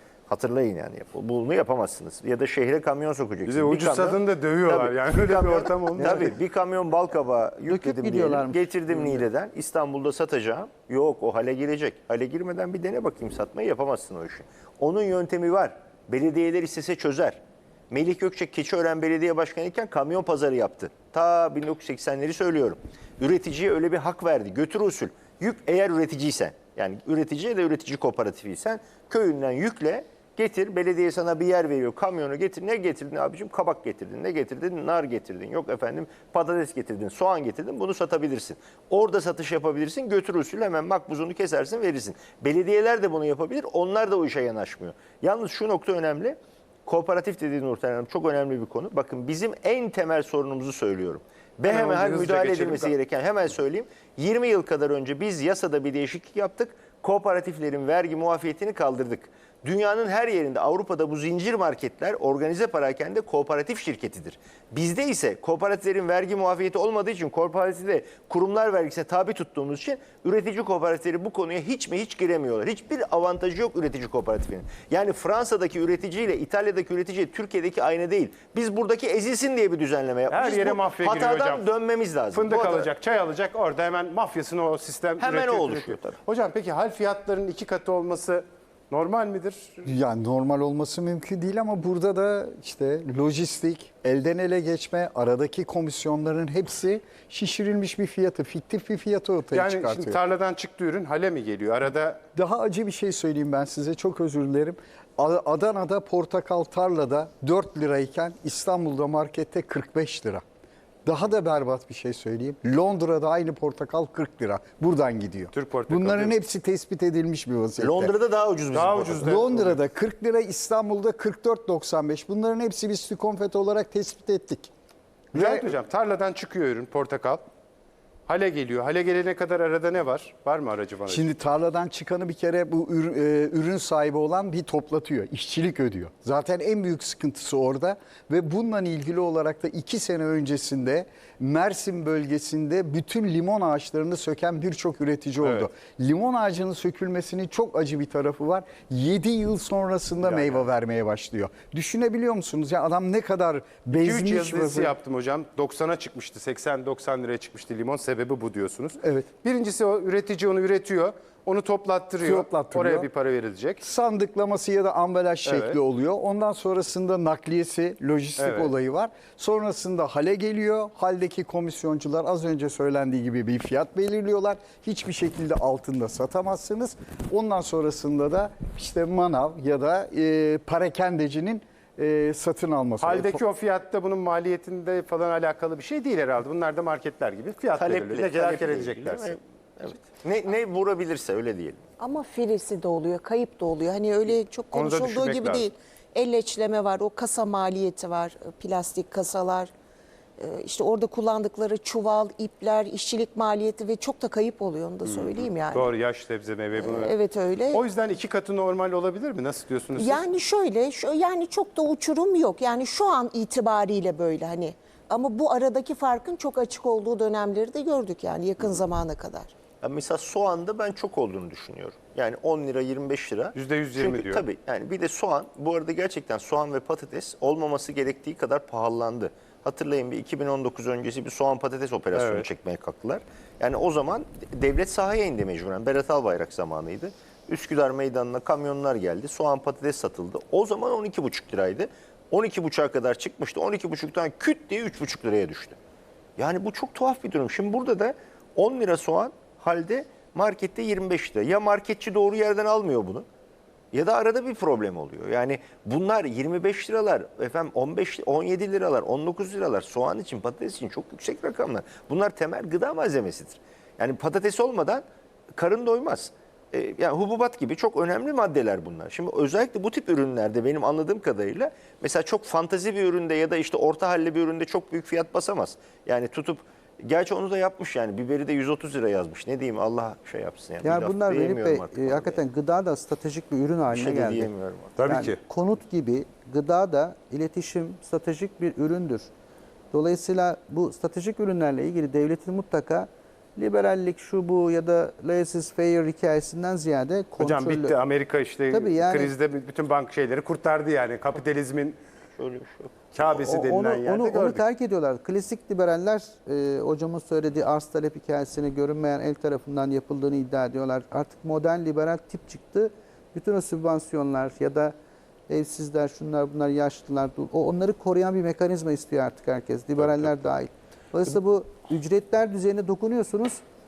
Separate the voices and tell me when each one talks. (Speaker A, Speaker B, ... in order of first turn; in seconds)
Speaker A: 0.3-82.9, 85.2-86.2, 117.8-119.6, 187.8-191.8, 219.8-245.8, 246.4-253.2, 253.9-265.0, 265.6-282.4, 283.9-284.9, 302.4-303.0
Speaker B: 3.5-6.0, 51.7-52.9, 80.3-81.6, 82.3-89.8, 99.6-102.2, 115.6-116.3, 118.7-119.4, 125.4-127.4, 128.3-131.2, 154.0-163.8, 168.4-168.7, 183.0-189.2, 194.7-195.6, 205.8-207.1, 207.8-210.2, 223.6-224.4, 232.1-232.5, 285.0-285.4, 297.4-302.0, 303.1-304.6
Speaker C: 5.9-6.4, 7.7-9.2, 280.8-284.5, 285.0-289.3, 289.9-298.0, 298.7-299.3, 303.2-314.9, 315.5-323.6
Speaker D: 89.8-100.2, 102.3-110.4, 111.0-118.1, 119.2-124.7, 125.3-125.7, 131.1-154.9, 159.0-159.3, 162.2-163.1, 163.8-183.4
Speaker E: 192.0-199.7, 200.4-206.0, 206.7-207.8, 210.0-219.5